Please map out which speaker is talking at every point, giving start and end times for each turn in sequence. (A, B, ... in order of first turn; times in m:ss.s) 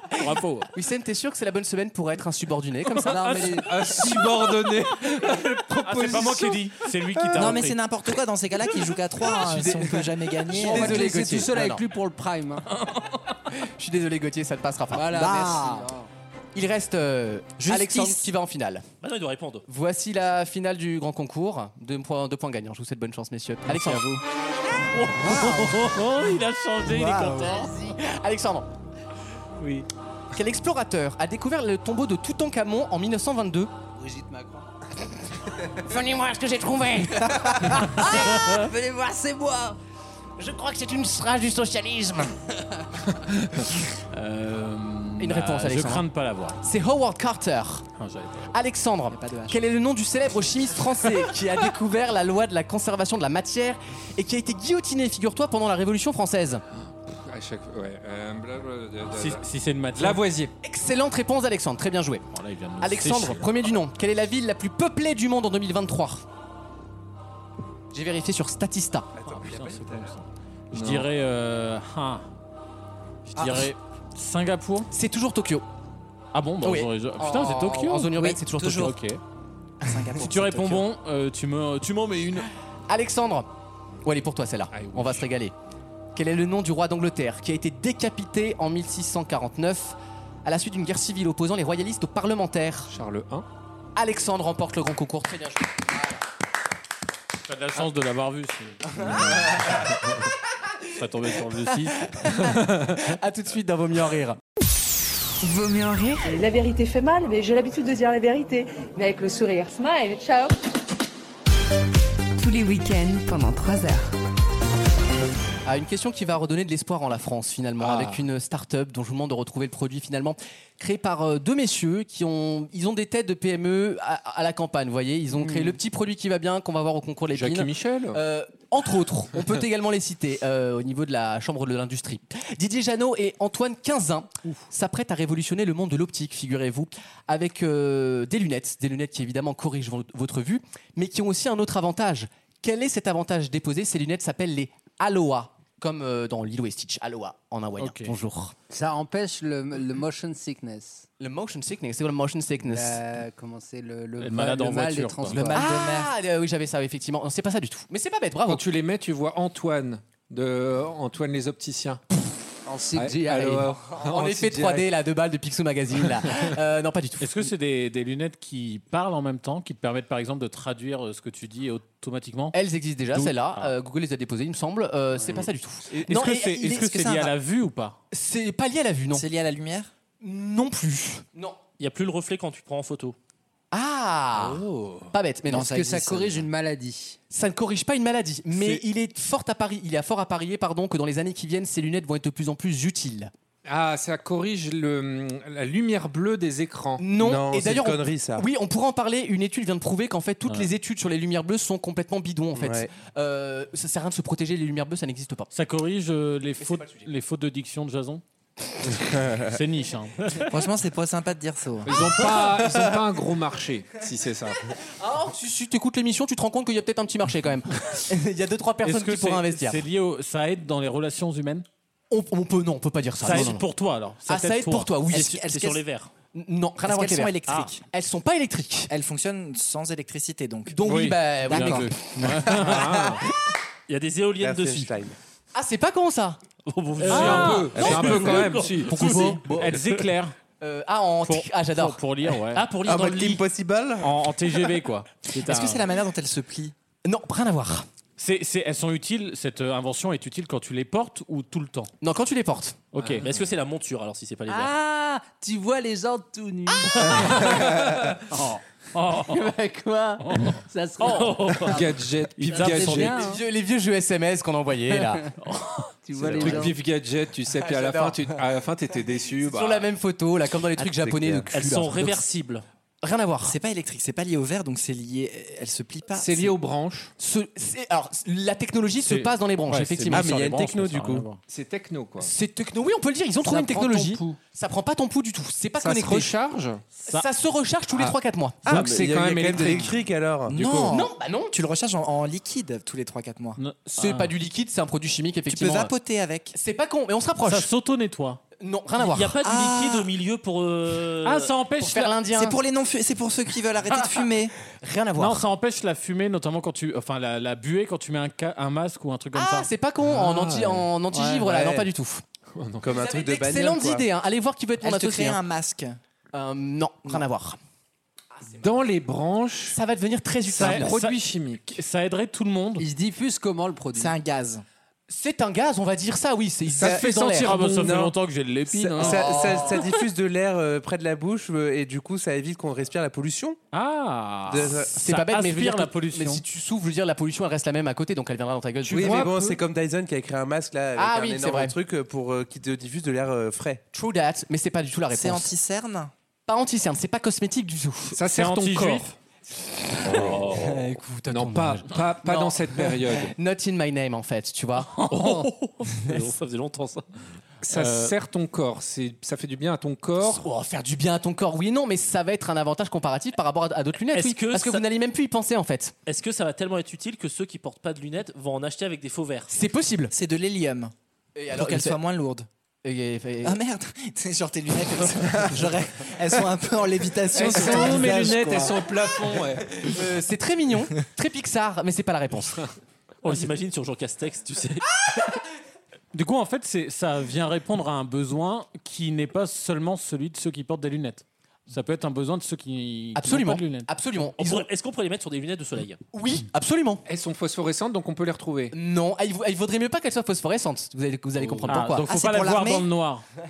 0:00.2-0:00.7 A
0:00.7-0:03.5 B
0:03.0-0:03.6 A
0:03.0-0:03.7 C
0:03.6-0:06.6 D
0:05.4-0:07.8 A
0:07.3-0:11.4 E
0:09.3-0:11.8 B
0:10.5-0:12.6 C
0:13.6-0:15.2 B
0:14.9-0:16.1 C
0:15.1-0:15.9 E
0:16.5-0:18.8 B
0:17.6-0:18.3 E
0:19.0-0:19.6 F
0:19.7-0:24.1 B
0:23.7-0:24.2 A
0:24.9-0:27.7 A
0:25.1-0:26.0 E
0:26.9-0:27.5 E
0:27.9-0:28.7 B
0:30.3-0:33.7 B
0:34.0-0:34.6 C
0:35.9-0:37.1 B
0:37.4-0:38.5 E
0:38.3-0:38.7 A
0:38.5-0:39.7 C
0:40.4-0:42.3 B
0:44.1-0:46.6 A
0:45.2-0:46.1 B
0:46.6-0:47.9 B
0:48.0-0:48.5 A
0:48.5-0:56.6 B
0:49.1-0:49.6 E
0:57.1-1:00.5 D
0:59.1-1:00.2 A
1:00.6-1:02.2 B
1:02.3-1:03.5 A
1:02.8-1:06.2 B
1:07.9-1:09.1 B
1:09.2-1:10.0 G
1:09.2-1:12.3 A
1:10.7-1:11.1 D
1:13.3-1:14.9 A
1:14.9-1:15.6 B
1:16.3-1:19.2 A
1:16.6-1:19.0 B
1:18.2-1:18.9 E
1:19.8-1:20.9 E
1:20.2-1:22.5 A
1:22.9-1:23.5 B
1:24.0-1:25.5 B
1:24.7-1:25.2 D
1:26.1-1:32.9 B
1:32.9-1:33.4 D
1:34.0-1:36.2 B
1:37.5-1:40.0 A
1:40.9-1:42.1 A
1:42.1-1:44.4 B
1:45.4-1:46.3 H
1:46.2-1:50.5 I
1:52.4-1:54.1 H
1:55.6-2:28.5 B
1:57.8-1:58.2 D
2:07.3-2:08.2 D
2:27.8-2:28.2 A
2:28.7-2:31.0 C
2:31.2-2:33.0 B
2:32.7-2:35.7 C
2:34.2-2:35.5 A
2:35.3-2:36.1 E
2:35.5-2:38.6 B
2:38.4-2:42.0 D
2:42.6-2:43.7 C
2:42.9-2:44.9 D
2:43.9-2:47.5 B
2:47.2-2:52.6 A
2:52.5-2:56.9 B
2:53.1-2:53.7 A
2:56.1-2:58.0 A
2:56.2-2:57.3 E
2:58.1-2:59.2 B
2:59.1-2:59.9 E
3:00.2-3:01.6 B
3:01.8-3:03.2 F
3:03.7-3:05.8 B
3:04.3-3:05.1 D
3:05.5-3:06.5 E
3:05.5-3:07.2 C
3:07.3-3:13.3 B
3:08.5-3:08.8 D
3:13.6-3:17.1 D
3:17.0-3:25.5 B
3:17.2-3:18.5 G
3:22.6-3:22.9 G
3:25.5-3:28.2 A
3:26.6-3:27.0 B
3:28.9-3:30.5 A
3:29.2-3:29.5 G
3:30.5-3:32.4 E
3:31.8-3:34.6 D
3:35.0-3:39.8 B
3:38.8-3:41.6 A
3:42.1-3:43.6 B
3:43.2-3:45.0 A
3:44.2-3:45.5 B
3:45.1-3:46.1 F
3:45.1-3:45.8 E
3:46.3-3:47.4 B
3:46.8-3:47.8 E
3:47.9-3:48.9 B
3:48.9-3:50.8 E
3:50.7-3:52.6 B
3:50.8-3:51.2 D
3:51.4-3:53.2 A
3:52.5-3:53.2 D
3:53.9-3:55.0 F
3:54.4-3:55.1 G
3:55.5-3:56.4 B
3:56.6-3:59.8 F
3:57.0-4:00.3 A
3:57.0-3:59.3 D
3:58.1-3:59.8 B
4:00.6-4:02.0 B
4:01.2-4:02.7 A
4:02.6-4:03.4 F
4:02.8-4:04.1 G
4:04.0-4:05.8 A
4:05.4-4:06.7 E
4:07.0-4:07.8 B
4:08.2-4:11.9 A
4:12.0-4:12.8 B
4:12.9-4:13.3 A
4:13.0-4:14.7 F
4:14.5-4:17.7 C
4:17.0-4:19.5 A
4:19.2-4:21.7 C
4:20.2-4:21.6 A
4:21.0-4:21.7 F
4:21.6-4:23.2 D
4:22.4-4:23.2 A
4:22.5-4:23.4 C
4:23.2-4:25.2 B
4:25.5-4:25.8 A
4:26.0-4:26.8 C
4:26.2-4:29.9 D
4:27.5-4:28.2 B
4:29.4-4:32.2 B
4:30.9-4:31.4 G
4:31.5-4:32.6 F
4:33.0-4:33.6 B
4:33.4-4:36.5 E
4:36.2-4:37.1 D
4:37.2-4:40.3 B
4:39.0-4:41.4 A
4:40.1-4:41.3 G
4:41.5-4:42.3 D
4:42.2-4:46.3 B
4:43.4-4:43.9 A
4:43.5-4:44.3 C
4:45.8-4:46.8 D
4:47.0-4:47.3 A
4:47.1-4:48.6 B
4:48.6-4:50.7 G
4:48.6-4:50.0 D
4:49.6-4:49.9 E
4:50.5-4:51.0 D
4:50.5-4:53.6 E
4:50.9-4:51.6 B
4:53.6-4:54.3 A
4:53.9-4:55.9 B
4:55.5-4:56.5 E
4:56.5-4:57.7 B
4:57.4-4:58.4 A
4:58.6-4:59.4 B
4:59.0-5:01.5 F
4:59.4-5:00.1 E
5:01.2-5:02.2 A
5:01.8-5:02.6 B
5:02.3-5:04.5 E
5:04.8-5:05.4 B
5:05.2-5:09.7 A
5:09.3-5:12.2 B
5:10.0-5:10.9 D
5:12.5-5:13.1 D
5:12.8-5:14.1 G
5:12.9-5:15.4 B
5:14.8-5:16.0 E
5:16.3-5:17.6 B
5:18.4-5:18.7 B
5:18.6-5:19.8 D
5:19.7-5:20.9 B
5:20.5-5:22.9 A
5:20.5-5:21.8 D
5:22.8-5:24.1 C
5:23.9-5:24.6 E
5:25.1-5:27.7 B
5:26.7-5:28.0 D
5:27.3-5:29.8 A
5:27.8-5:28.1 G
5:28.7-5:29.1 D
5:28.9-5:33.6 G
5:29.0-5:29.5 B
5:33.7-5:36.4 A
5:34.5-5:34.9 G
5:34.9-5:39.3 B
5:38.8-5:39.6 D
5:38.9-5:43.8 G
5:41.0-5:41.7 B
5:43.9-5:45.5 B
5:45.1-5:46.1 E
5:46.5-5:48.2 B
5:48.1-5:49.1 D
5:48.2-5:49.1 A
5:49.9-5:55.1 B
5:50.0-5:53.3 D
5:55.1-5:57.0 F
5:57.6-6:00.4 D
5:57.7-5:58.2 A
6:00.2-6:05.9 B
6:04.1-6:04.8 F
6:06.0-6:09.5 F
6:09.5-6:10.1 B
6:10.1-6:10.9 E
6:11.4-6:12.0 B
6:11.5-6:12.5 E
6:12.8-6:13.6 B
6:13.4-6:18.8 E
6:17.3-6:19.8 D
6:19.8-6:22.6 B
6:23.2-6:25.0 F
6:26.1-6:33.9 A
6:33.1-6:34.6 B
6:34.4-6:36.0 F
6:36.1-6:37.0 B
6:37.0-6:38.7 D
6:38.7-6:42.1 B
6:41.4-6:41.7 D
6:41.6-6:43.2 A
6:42.1-6:42.8 E